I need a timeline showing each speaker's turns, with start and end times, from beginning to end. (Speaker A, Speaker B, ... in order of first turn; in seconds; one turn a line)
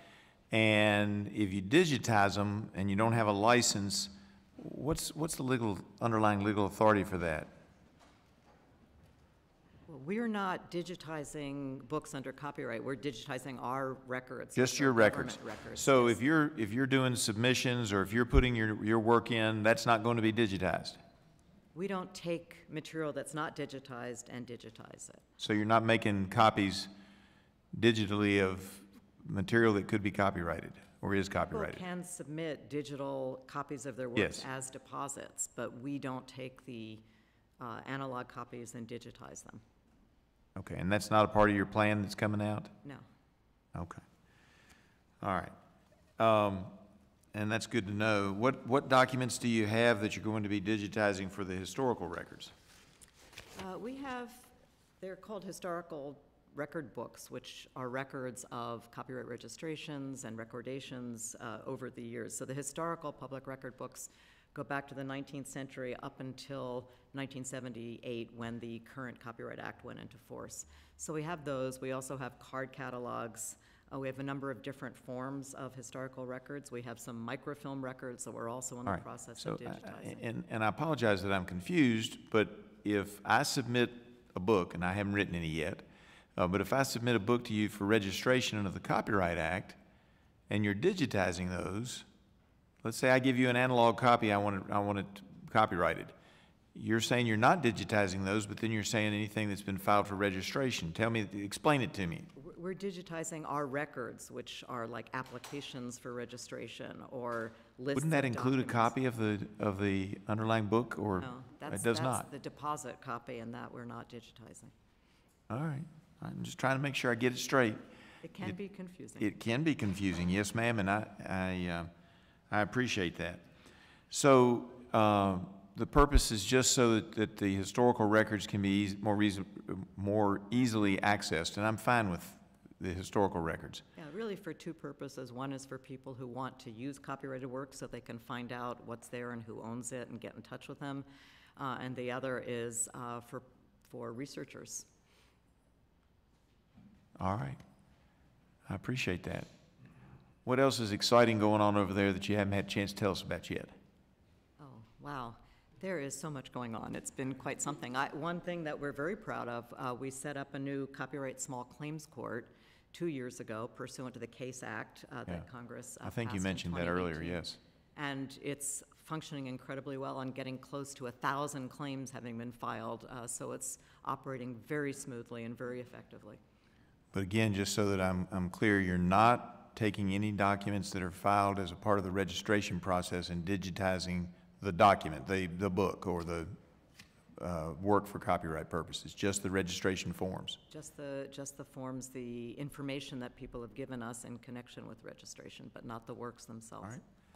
Speaker A: 0.5-7.5
Speaker B: 9.9-16.2
Speaker A: 14.5-21.0
Speaker B: 21.7-25.2
Speaker A: 25.4-26.9
Speaker A: 27.7-31.8
Speaker B: 31.5-37.0
Speaker A: 34.1-34.4
Speaker B: 37.6-39.6
Speaker A: 40.5-42.7
Speaker A: 43.7-44.0
Speaker A: 45.2-45.5
Speaker A: 46.2-46.8
Speaker A: 47.3-52.5
Speaker B: 53.5-80.2
Speaker A: 78.8-89.8
Speaker A: 90.5-92.0
Speaker A: 92.8-96.1
Speaker A: 96.7-102.3
Speaker B: 102.3-108.9
Speaker A: 107.9-112.2
Speaker B: 111.2-114.7
Speaker A: 115.5-117.8
Speaker B: 118.2-119.3
Speaker A: 119.2-121.9
Speaker A: 122.5-123.5
Speaker A: 124.1-133.8
Speaker B: 133.9-141.1
Speaker B: 141.6-144.9
Speaker A: 147.2-147.6
Speaker A: 148.7-149.5
Speaker A: 150.4-153.7
Speaker B: 154.6-167.4
Speaker A: 166.0-167.6
Speaker B: 167.9-176.4
Speaker A: 177.1-186.5
Speaker A: 187.3-190.6
Speaker B: 190.7-197.0